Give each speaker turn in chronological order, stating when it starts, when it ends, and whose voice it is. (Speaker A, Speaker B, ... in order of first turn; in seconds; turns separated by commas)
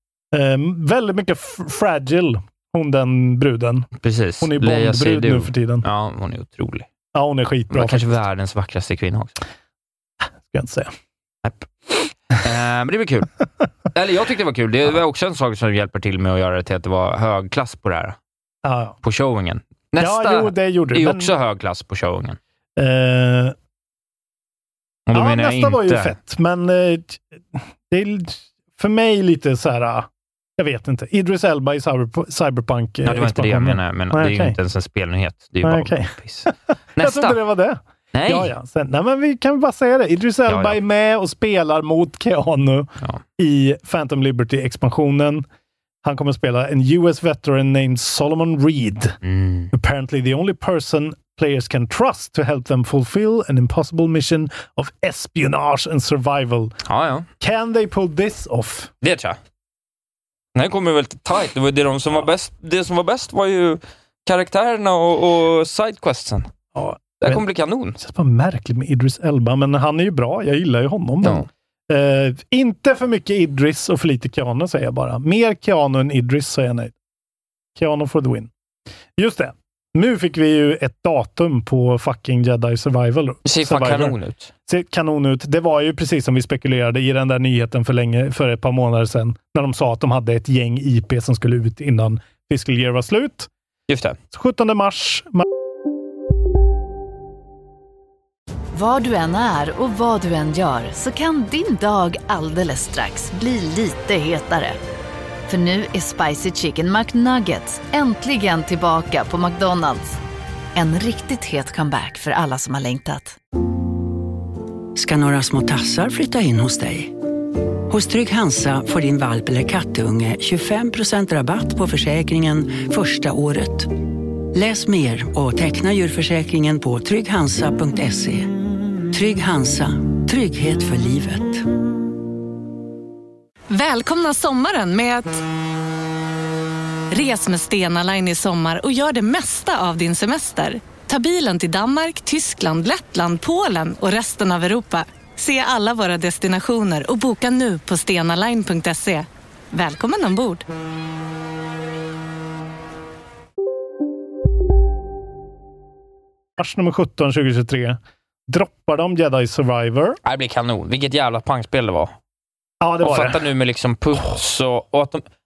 Speaker A: 0.3-3.9, Speaker B: 4.0-6.9, Speaker A: 4.4-5.8, Speaker A: 7.1-8.1, Speaker B: 7.7-9.4, Speaker A: 10.4-10.9, Speaker B: 11.4-13.3, Speaker B: 13.9-18.2, Speaker A: 18.6-19.0, Speaker B: 19.0-22.4, Speaker A: 20.0-21.3, Speaker A: 22.8-23.5, Speaker B: 25.1-26.1, Speaker A: 25.1-34.6, Speaker B: 33.0-37.4, Speaker A: 35.6-45.4, Speaker B: 38.1-38.5, Speaker B: 40.5-40.8, Speaker A: 46.0-49.2, Speaker B: 49.2-49.7, Speaker A: 49.7-56.7, Speaker B: 56.8-57.3, Speaker A: 57.4-58.9, Speaker B: 59.0-59.4, Speaker B: 60.5-66.5, Speaker A: 66.7-67.4, Speaker B: 67.2-68.0, Speaker A: 68.0-76.9, Speaker B: 71.2-71.5, Speaker A: 77.7-78.5, Speaker A: 79.2-93.5, Speaker B: 83.4-84.5, Speaker B: 93.9-94.2, Speaker A: 94.3-95.4, Speaker C: 98.7-104.8, Speaker C: 105.5-110.2, Speaker C: 110.7-113.4, Speaker D: 114.9-117.1, Speaker D: 117.9-123.9, Speaker D: 124.5-128.5, Speaker D: 129.1-131.6, Speaker E: 133.7-135.4, Speaker E: 137.1-150.6, Speaker A: 156.6-160.2, Speaker B: 160.2-162.1, Speaker A: 162.8-163.4, Speaker B: 163.0-165.2